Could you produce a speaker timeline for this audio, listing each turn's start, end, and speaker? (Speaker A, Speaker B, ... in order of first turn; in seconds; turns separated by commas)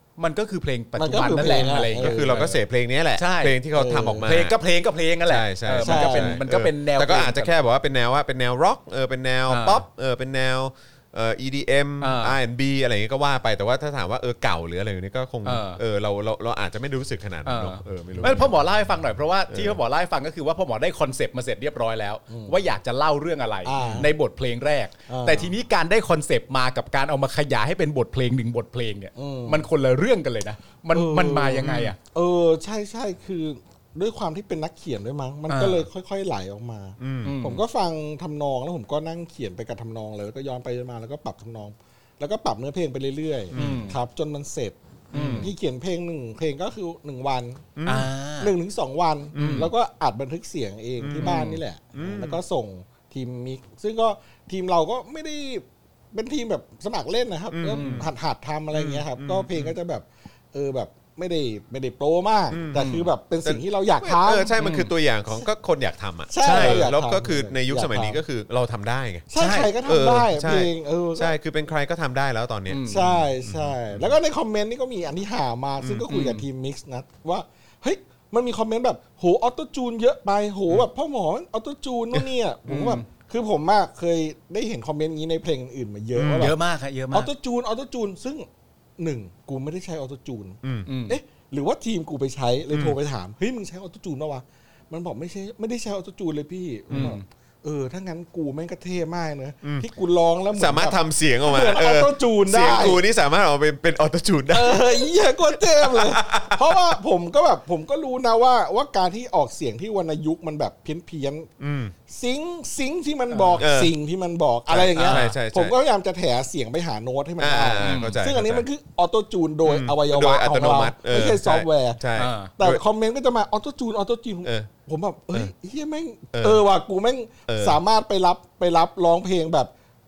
Speaker A: 0.2-2.6, Speaker B: 1.0-2.4, Speaker C: 1.2-4.6, Speaker A: 3.1-3.6, Speaker B: 3.7-4.3, Speaker A: 4.2-7.5, Speaker C: 5.2-18.6, Speaker B: 5.8-6.4, Speaker A: 9.5-9.8, Speaker A: 12.0-12.3, Speaker A: 15.4-15.8, Speaker A: 17.4-32.0, Speaker C: 19.5-19.8, Speaker B: 22.3-22.6, Speaker B: 23.6-24.1, Speaker C: 23.8-24.1, Speaker B: 25.1-25.5, Speaker B: 29.1-29.6, Speaker B: 30.9-47.6, Speaker C: 31.6-31.9, Speaker A: 35.5-35.9, Speaker C: 37.0-37.4, Speaker A: 37.2-37.6, Speaker C: 43.5-43.8, Speaker A: 43.5-44.0, Speaker A: 45.1-45.5, Speaker C: 45.1-45.5, Speaker C: 47.8-48.1, Speaker A: 47.9-48.5, Speaker B: 48.4-64.5, Speaker C: 49.3-49.7, Speaker A: 49.4-49.7, Speaker C: 51.0-52.4, Speaker A: 51.1-51.6, Speaker C: 57.5-58.0, Speaker A: 57.6-58.1, Speaker C: 58.7-59.8, Speaker C: 62.5-62.9, Speaker A: 62.7-63.1, Speaker C: 63.4-69.3, Speaker A: 64.6-64.9, Speaker B: 66.3-68.2, Speaker A: 66.4-66.9, Speaker B: 69.3-71.3, Speaker A: 69.3-69.7, Speaker C: 69.8-74.2, Speaker A: 72.7-73.1, Speaker B: 72.9-86.5, Speaker C: 75.8-76.1, Speaker A: 76.1-76.4, Speaker A: 82.7-83.0, Speaker C: 86.1-86.5, Speaker A: 86.3-87.3, Speaker B: 87.1-103.0, Speaker A: 90.8-91.2, Speaker C: 92.7-93.0, Speaker A: 96.9-97.2, Speaker C: 100.5-107.0, Speaker B: 104.5-111.5, Speaker C: 111.6-111.9, Speaker B: 112.1-122.0, Speaker A: 113.3-113.7, Speaker C: 113.6-113.9, Speaker C: 114.7-115.8, Speaker A: 115.0-115.3, Speaker C: 117.4-118.7, Speaker A: 117.8-118.2, Speaker C: 119.6-122.8, Speaker A: 122.2-122.5, Speaker B: 122.6-129.7, Speaker C: 124.4-124.7, Speaker C: 126.3-126.6, Speaker C: 127.5-127.8